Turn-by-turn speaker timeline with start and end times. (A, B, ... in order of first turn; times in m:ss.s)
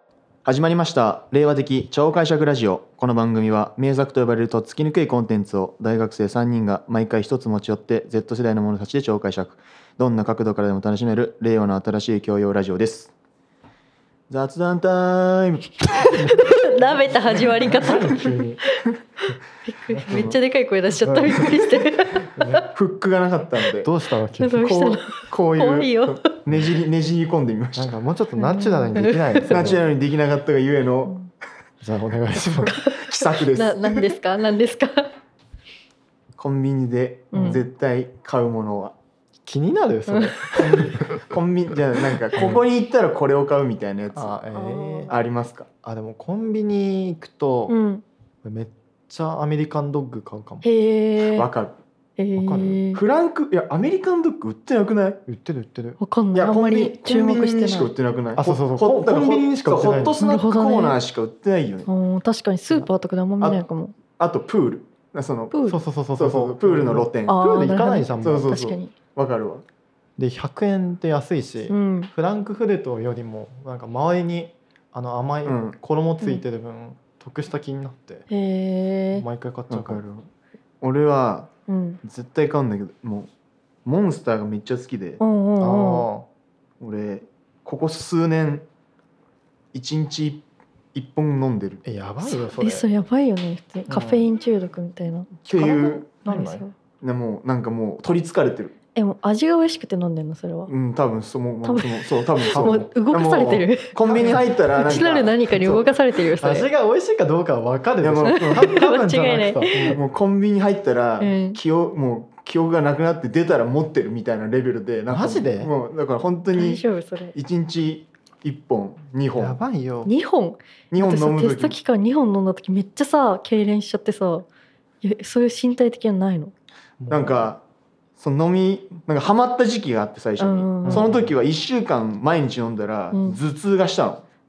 0:00.4-0:13.1 A
0:14.3-0:16.5 A
0:16.2-0:16.4 B
0:16.2-0:18.8 C
0:17.6-0:18.6 B
0:19.7-0:22.6 C
0:19.9-0:20.3 B
0:20.1-0:20.4 A
0:21.0-0:22.7 B
0:22.7-0:23.9 A
0:23.8-0:24.7 B
0:24.4-0:26.2 C
0:24.6-0:27.9 A
0:27.8-0:29.8 B
0:28.4-0:29.8 C
0:29.4-0:31.2 A
0:31.8-0:32.7 B
0:32.6-0:35.1 C
0:32.8-0:34.1 A
0:36.4-0:39.0 A
0:37.3-0:37.6 C
0:37.3-0:37.6 B
0:39.5-0:41.3 B
0:40.1-0:40.9 C
0:41.2-0:44.4 A
0:42.3-0:42.6 B
0:44.1-0:45.1 B
0:44.5-0:45.2 C
0:45.1-0:45.7 A
0:45.8-0:47.8 B
0:47.7-0:48.0 C
0:48.4-0:50.6 B
0:50.6-0:51.5 C
0:51.3-0:51.8 A
0:52.2-0:53.0 C
0:52.4-0:52.8 B
0:52.9-0:55.2 A
0:55.3-0:56.0 B
0:56.0-0:57.9 C
0:56.3-1:01.9 A
0:58.4-1:00.2 B
1:00.2-1:01.0 C
1:01.9-1:04.0 C
1:04.2-1:05.6 A
1:05.5-1:05.8 C
1:05.7-1:08.5 B
1:06.2-1:07.4 A
1:07.3-1:08.9 C
1:08.2-1:09.6 A
1:10.2-1:18.3 B
1:11.7-1:12.1 C
1:15.4-1:15.8 A
1:18.3-1:19.3 C
1:19.2-1:20.0 B
1:19.7-1:20.3 A
1:20.8-1:21.5 A
1:21.7-1:22.0 C
1:22.0-1:23.3 A
1:23.8-1:25.2 A
1:25.2-1:26.1 C
1:25.6-1:26.3 B
1:26.8-1:28.6 A
1:29.7-1:31.8 A
1:31.8-1:32.9 B
1:32.2-1:36.7 C
1:33.9-1:34.2 B
1:35.4-1:36.1 A
1:36.2-1:36.6 B
1:37.0-1:38.8 A
1:39.0-1:40.7 C
1:40.7-1:45.9 A
1:41.6-1:46.7 C
1:42.5-1:42.9 B
1:44.0-1:44.4 B
1:46.4-1:50.0 B
1:48.0-1:48.7 A
1:48.3-1:50.0 C
1:49.9-1:59.6 A
1:51.2-1:51.6 C
1:55.1-1:55.7 B
1:56.5-1:57.4 C
1:59.4-2:00.1 B
2:00.1-2:04.5 C
2:00.9-2:01.8 A
2:05.0-2:06.5 C
2:07.0-2:07.5 B
2:07.1-2:07.6 A
2:08.2-2:14.2 A
2:10.4-2:11.1 C
2:10.8-2:11.3 B
2:13.1-2:13.4 C